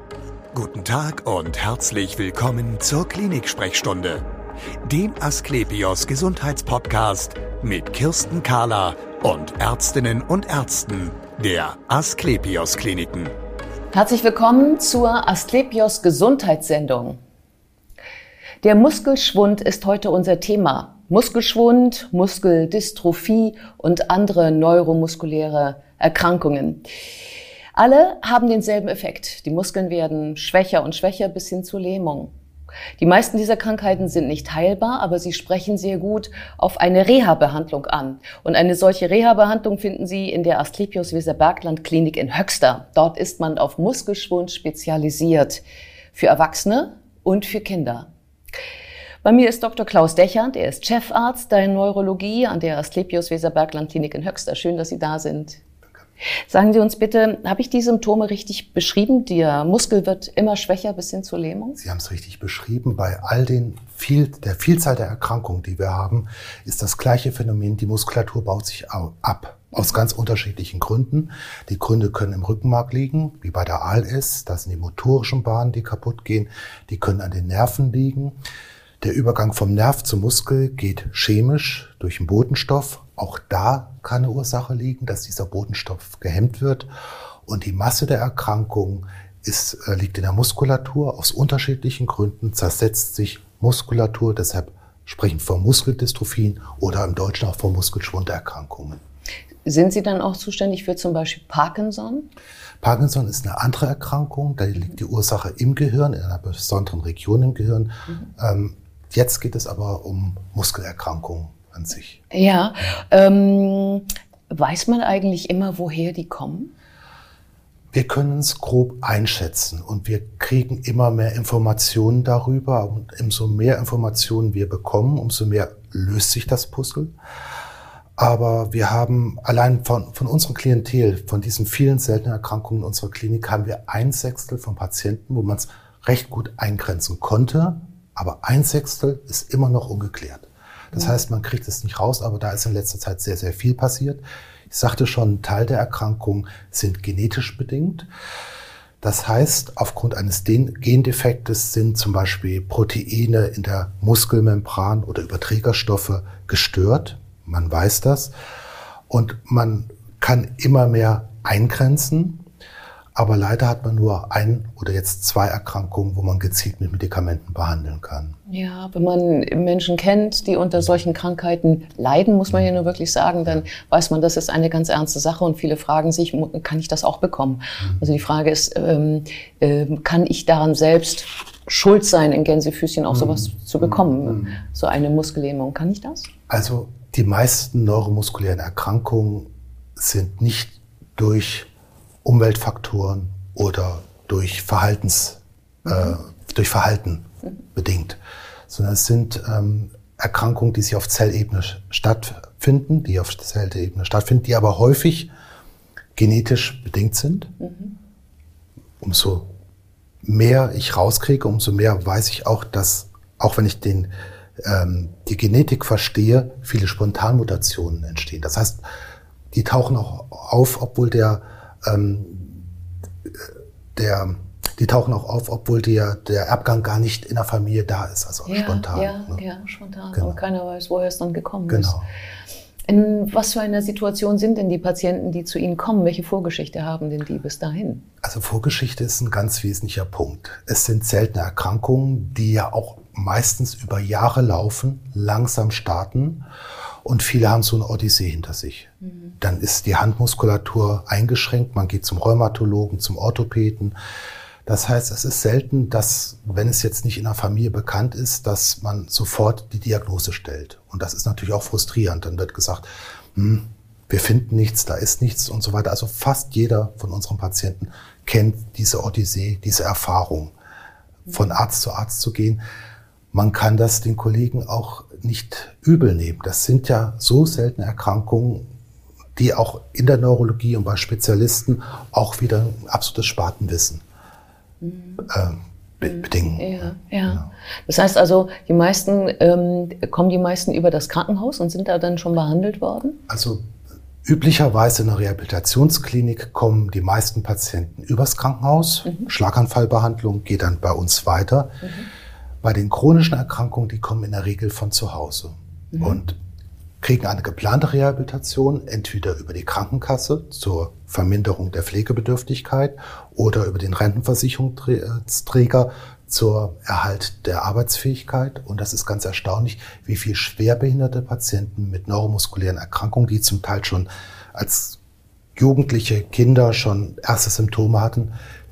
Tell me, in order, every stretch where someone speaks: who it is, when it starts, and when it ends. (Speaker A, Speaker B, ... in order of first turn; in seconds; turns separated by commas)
Speaker A: 0.5-4.2, Speaker A: 4.8-13.3, Speaker B: 13.9-17.2, Speaker B: 18.6-26.8, Speaker B: 27.7-32.3, Speaker B: 33.0-48.1, Speaker B: 49.2-55.6, Speaker B: 56.5-61.8, Speaker C: 61.8-78.4, Speaker C: 79.0-86.9, Speaker C: 87.5-99.0, Speaker B: 99.6-102.3, Speaker C: 102.8-112.2, Speaker B: 112.3-116.7, Speaker C: 117.9-127.1, Speaker C: 128.2-148.1, Speaker B: 140.9-141.2, Speaker C: 149.0-158.3, Speaker C: 159.1-162.4, Speaker C: 163.1-168.3, Speaker B: 168.5-186.3, Speaker C: 183.1-184.6, Speaker C: 186.5-191.7, Speaker C: 192.2-205.3, Speaker B: 195.8-196.2, Speaker C: 206.2-207.5, Speaker B: 207.6-207.9, Speaker C: 209.0-209.5, Speaker C: 210.2-218.8, Speaker C: 219.5-222.7, Speaker C: 223.9-229.4, Speaker B: 228.4-231.9, Speaker C: 230.1-230.4, Speaker C: 231.7-232.1, Speaker B: 232.9-238.0, Speaker C: 238.2-246.4, Speaker C: 247.0-253.9, Speaker B: 249.1-249.3, Speaker C: 254.7-270.5, Speaker C: 271.3-272.6, Speaker C: 273.3-278.7, Speaker C: 279.4-284.0, Speaker B: 284.8-285.3, Speaker C: 285.2-287.5, Speaker B: 286.2-293.2, Speaker C: 293.3-293.6, Speaker C: 294.2-301.7, Speaker B: 301.8-302.1, Speaker C: 302.6-306.4, Speaker B: 305.9-306.2, Speaker C: 307.0-325.0, Speaker C: 325.6-328.3